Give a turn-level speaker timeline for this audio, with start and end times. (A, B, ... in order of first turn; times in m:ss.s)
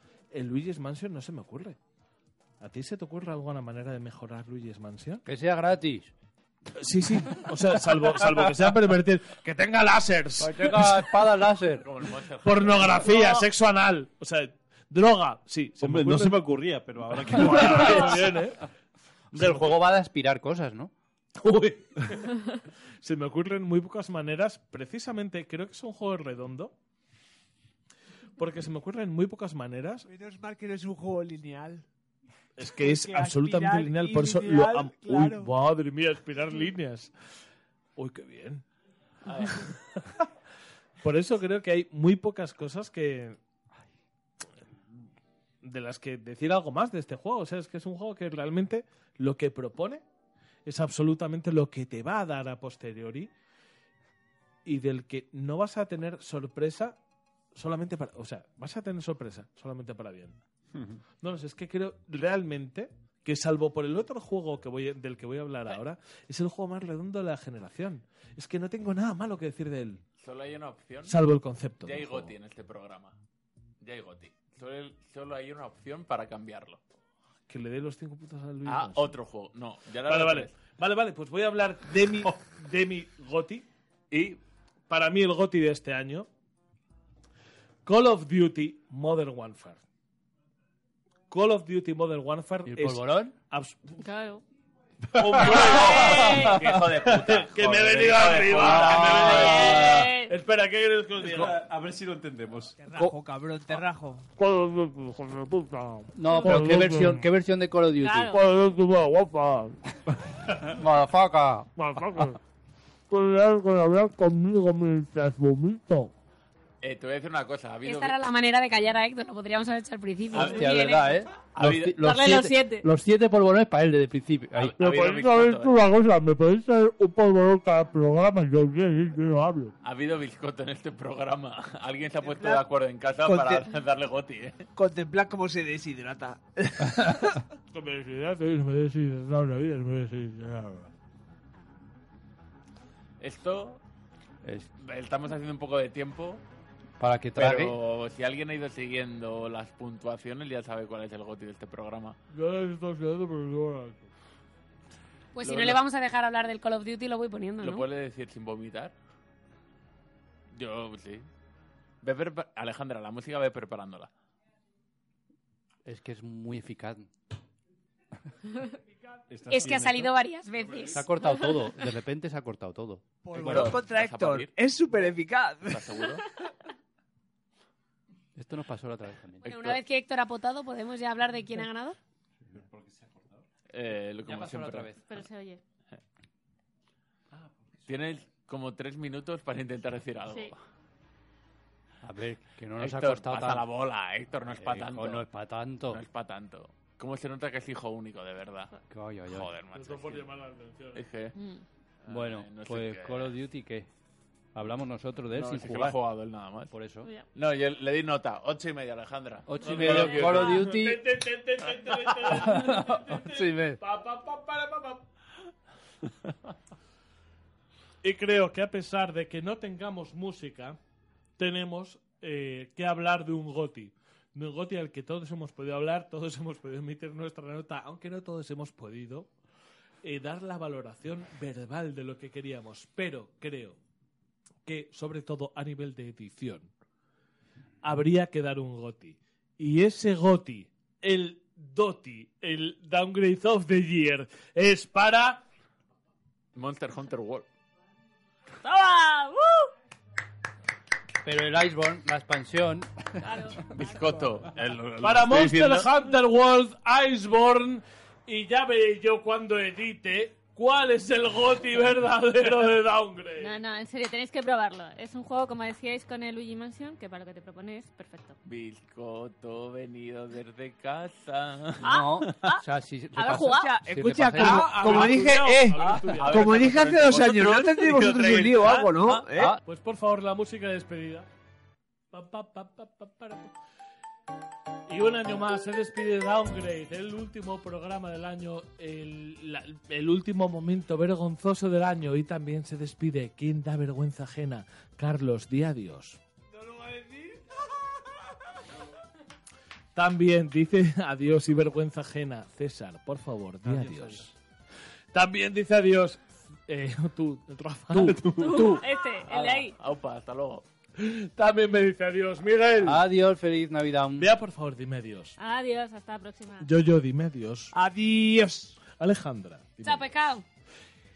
0:00.3-0:01.8 A
0:02.6-0:05.2 A
0:05.2-0:06.1 B
0:06.7-0:11.2 A
0:10.4-0:11.9 B
0:11.8-0:13.4 C
0:12.4-0:16.4 A
0:15.8-0:18.3 D
0:17.3-0:18.6 A
0:17.8-0:18.2 B
0:19.3-0:20.9 B
0:21.4-0:22.4 A
0:23.0-0:26.7 A
0:28.4-0:30.1 A
0:30.1-0:31.8 E
0:32.6-0:37.1 A
0:32.8-0:35.5 E
0:38.0-0:38.6 A
0:39.2-0:39.7 C
0:39.4-0:40.2 A
0:41.0-0:43.4 A
0:45.6-0:50.0 A
0:50.6-0:53.3 A
0:54.6-0:57.0 A
0:57.5-1:00.4 A
1:00.7-1:01.0 D
1:01.2-1:10.0 A
1:10.2-1:11.2 C
1:11.0-1:12.3 A
1:11.8-1:13.2 C
1:13.8-1:16.8 C
1:17.5-1:19.2 A
1:18.6-1:20.5 C
1:20.0-1:23.6 A
1:24.1-1:24.4 C
1:24.9-1:26.3 A
1:27.8-1:29.8 A
1:31.3-1:34.0 A
1:32.6-1:33.3 B
1:34.0-1:34.4 F
1:35.1-1:41.6 A
1:35.2-1:40.1 C
1:35.6-1:36.6 F
1:38.5-1:39.3 B
1:39.0-1:40.3 F
1:41.2-1:42.8 D
1:42.8-1:44.2 E
1:44.4-1:47.3 G
1:46.1-1:48.3 B
1:46.2-1:46.7 F
1:48.0-1:48.4 F
1:48.3-1:49.8 G
1:50.5-1:51.7 B
1:51.8-1:52.4 G
1:53.1-1:56.1 G
1:56.8-1:58.2 C
1:57.8-2:01.2 H
2:00.3-2:02.0 C
2:00.4-2:04.8 B
2:02.0-2:02.9 F
2:04.6-2:05.8 C
2:04.8-2:09.7 G
2:09.8-2:14.7 C
2:12.2-2:12.6 E
2:13.2-2:13.6 E
2:14.8-2:17.4 E
2:17.0-2:17.3 B
2:17.7-2:20.8 A
2:23.2-2:23.8 C
2:24.4-2:24.7 B
2:24.8-2:26.4 C
2:27.0-2:27.7 B
2:27.3-2:32.2 C
2:32.4-2:34.0 G
2:32.7-2:33.0 A
2:35.3-2:37.9 H
2:35.4-2:35.8 C
2:37.6-2:38.9 C
2:40.5-2:41.3 C
2:42.0-2:44.1 C
2:45.8-2:47.1 B
2:49.3-2:50.1 D
2:49.5-2:51.1 H
2:50.8-2:53.0 B
2:53.2-2:56.0 E
2:53.3-2:54.5 C
2:55.6-2:56.2 C
2:58.4-2:59.8 B
2:59.4-3:02.0 H
3:02.5-3:03.4 D
3:03.7-3:04.9 C
3:04.2-3:05.1 B
3:05.0-3:05.6 F
3:07.3-3:08.0 D
3:07.9-3:10.5 C
3:10.3-3:10.5 F
3:12.0-3:13.6 B
3:12.8-3:15.3 C
3:14.5-3:16.0 B
3:15.9-3:18.7 C
3:18.9-3:19.5 B
3:19.3-3:20.3 C
3:19.7-3:21.1 A
3:20.9-3:21.3 C
3:21.4-3:21.6 F
3:22.0-3:23.4 C
3:22.1-3:23.9 B
3:24.5-3:26.0 B
3:25.3-3:26.7 C
3:26.7-3:27.1 B
3:27.0-3:27.3 F
3:27.3-3:30.5 C
3:29.4-3:31.0 B
3:29.6-3:30.7 F
3:29.6-3:35.0 A
3:32.4-3:33.8 B
3:38.0-3:40.8 A
3:41.4-3:49.3 A
3:50.0-3:53.8 A
3:54.6-3:56.7 A
3:57.8-4:05.4 A
4:06.5-4:07.5 C
4:08.6-4:09.7 F
4:11.2-4:13.1 B
4:13.2-4:14.0 F
4:13.7-4:15.9 C
4:15.0-4:23.6 A
4:23.4-4:28.4 F
4:28.4-4:31.9 C
4:31.8-4:32.6 F
4:31.8-4:35.1 B
4:33.2-4:33.8 F
4:33.2-4:39.6 E
4:34.4-4:36.8 A
4:35.0-4:39.2 C
4:39.6-4:41.3 A
4:42.1-4:43.5 A
4:44.9-4:56.2 A
4:56.5-4:57.4 E
4:59.9-5:04.3 A
5:03.6-5:04.2 B
5:05.1-5:08.2 A
5:08.0-5:08.8 B
5:08.0-5:08.8 D
5:08.3-5:09.8 F
5:09.2-5:10.6 C
5:11.0-5:13.0 A
5:12.8-5:14.3 B
5:14.2-5:15.4 A
5:15.4-5:16.7 F
5:16.6-5:17.7 A
5:17.7-5:18.8 E
5:19.0-5:20.1 A
5:19.8-5:20.4 H